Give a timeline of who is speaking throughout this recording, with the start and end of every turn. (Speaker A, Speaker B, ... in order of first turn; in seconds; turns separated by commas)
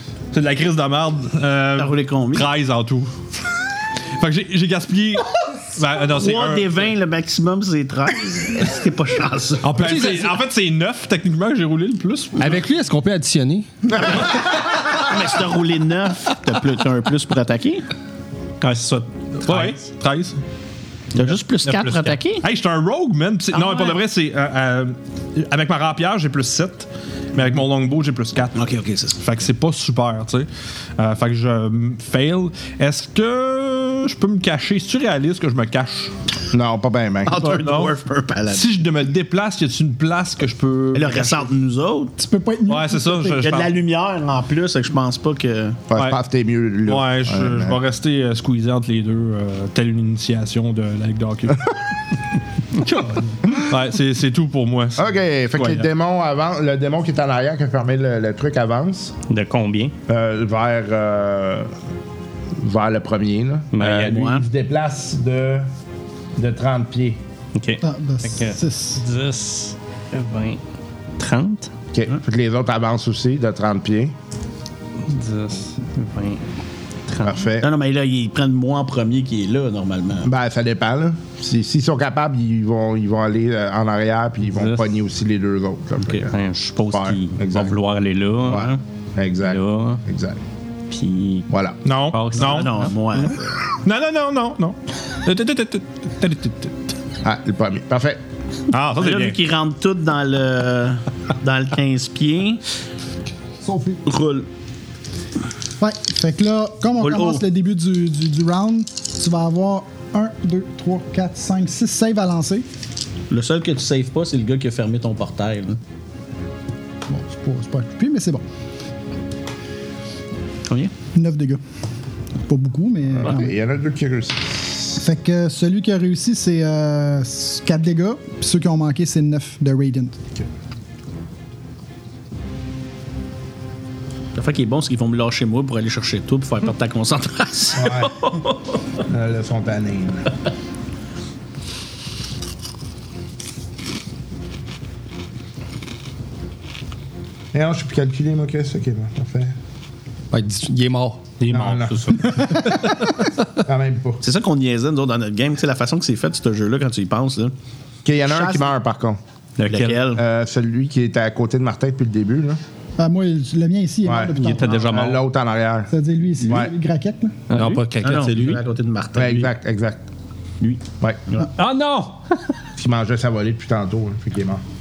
Speaker A: 0.3-3.1, Speaker B: 1.8-2.5, Speaker A: 4.2-6.9, Speaker B: 6.1-9.9, Speaker A: 9.6-12.5, Speaker C: 9.7-10.4, Speaker C: 12.4-13.7, Speaker D: 14.0-14.3, Speaker B: 14.0-17.8, Speaker E: 18.6-19.7, Speaker A: 19.4-20.4, Speaker B: 21.1-22.4, Speaker A: 21.6-36.1, Speaker B: 23.5-24.0, Speaker B: 28.6-29.2, Speaker D: 36.5-37.4, Speaker B: 37.2-38.7, Speaker A: 37.4-38.0, Speaker A: 38.5-41.5, Speaker B: 40.9-42.2, Speaker F: 42.2-43.5, Speaker A: 42.7-43.7, Speaker B: 43.4-45.8, Speaker D: 45.9-47.8, Speaker A: 46.9-51.8, Speaker A: 52.8-55.9, Speaker D: 55.0-59.1, Speaker E: 59.3-59.9, Speaker D: 60.1-61.7, Speaker D: 62.6-65.7, Speaker E: 63.7-64.4, Speaker B: 63.8-64.5, Speaker D: 66.4-67.2, Speaker E: 67.5-70.6, Speaker F: 67.8-69.0, Speaker E: 71.2-71.7, Speaker D: 71.9-74.1, Speaker E: 75.0-76.4, Speaker E: 77.1-77.3, Speaker D: 77.2-77.7, Speaker B: 77.6-80.3, Speaker D: 80.2-86.3, Speaker E: 84.5-84.8, Speaker E: 86.1-88.8, Speaker D: 86.9-87.8, Speaker D: 88.5-90.4, Speaker E: 89.4-90.0, Speaker E: 90.9-91.5, Speaker D: 91.5-91.8, Speaker A: 91.8-92.8, Speaker E: 92.1-92.9, Speaker B: 92.4-93.5, Speaker A: 93.7-96.8, Speaker D: 97.2-98.2, Speaker A: 98.7-99.4, Speaker B: 99.0-102.6, Speaker F: 103.6-104.0, Speaker B: 104.0-104.5, Speaker F: 105.8-112.7, Speaker B: 107.0-107.4, Speaker B: 113.3-115.8, Speaker F: 117.1-118.4, Speaker B: 120.7-120.9, Speaker F: 121.1-121.6, Speaker F: 122.5-123.6, Speaker D: 123.2-125.0, Speaker F: 125.0-130.2, Speaker B: 134.3-138.5, Speaker D: 137.8-138.2, Speaker D: 139.1-140.3, Speaker D: 147.5-149.6, Speaker C: 150.3-151.3, Speaker D: 151.5-152.7, Speaker E: 151.5-152.2, Speaker D: 153.6-154.2, Speaker B: 154.2-157.5, Speaker D: 158.1-159.2, Speaker B: 158.3-158.7, Speaker E: 159.6-160.0, Speaker B: 159.7-160.2, Speaker D: 160.2-162.6, Speaker F: 163.0-164.8, Speaker D: 164.1-165.9, Speaker E: 164.4-165.2, Speaker F: 165.9-167.4, Speaker D: 166.5-166.7, Speaker E: 167.5-167.8, Speaker C: 167.5-168.6, Speaker B: 168.0-169.5, Speaker D: 169.2-170.0, Speaker B: 170.6-171.5, Speaker E: 171.6-172.2, Speaker D: 172.8-174.6